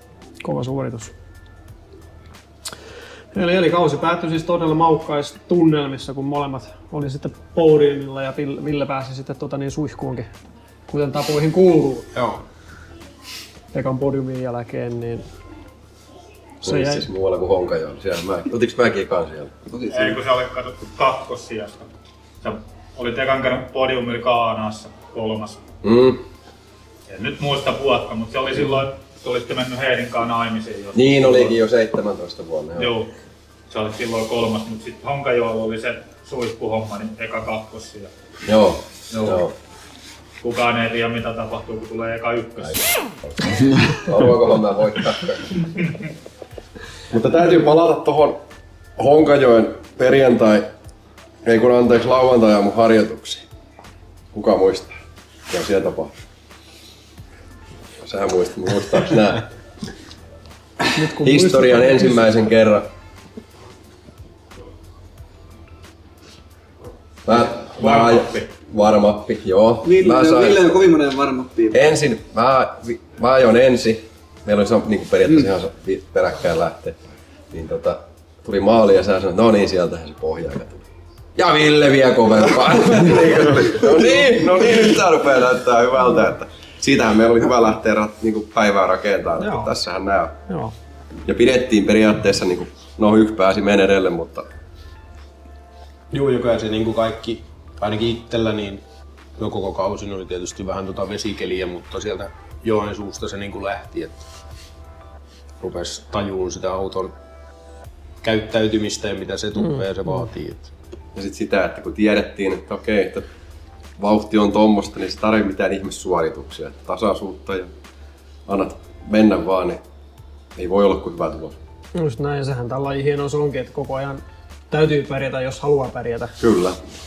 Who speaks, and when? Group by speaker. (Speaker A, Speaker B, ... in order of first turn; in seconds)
Speaker A: 0.4-1.1, 3.3-10.3, 10.9-12.1, 13.7-15.2, 16.6-17.1, 60.9-62.3, 89.4-89.7, 90.5-90.7, 121.9-126.4
Speaker B: 12.1-12.4, 96.1-98.8, 99.4-104.2, 105.6-107.1, 108.2-110.7
Speaker C: 16.6-19.5, 25.8-26.2, 30.9-32.9, 38.5-39.5, 42.6-45.6, 47.1-48.4, 49.0-50.7, 51.4-53.5, 54.3-55.0, 55.5-56.1, 58.0-59.5, 61.1-62.9, 67.2-70.9, 71.7-90.4, 91.2-94.5, 111.1-113.2, 114.0-117.7, 118.5-119.8, 120.5-121.6, 126.4-126.8
Speaker D: 19.7-20.2, 69.8-71.8
Speaker E: 19.9-21.9, 22.4-25.6, 27.1-31.6, 32.8-33.1, 33.7-38.1, 39.1-39.5, 40.4-42.9, 67.6-68.5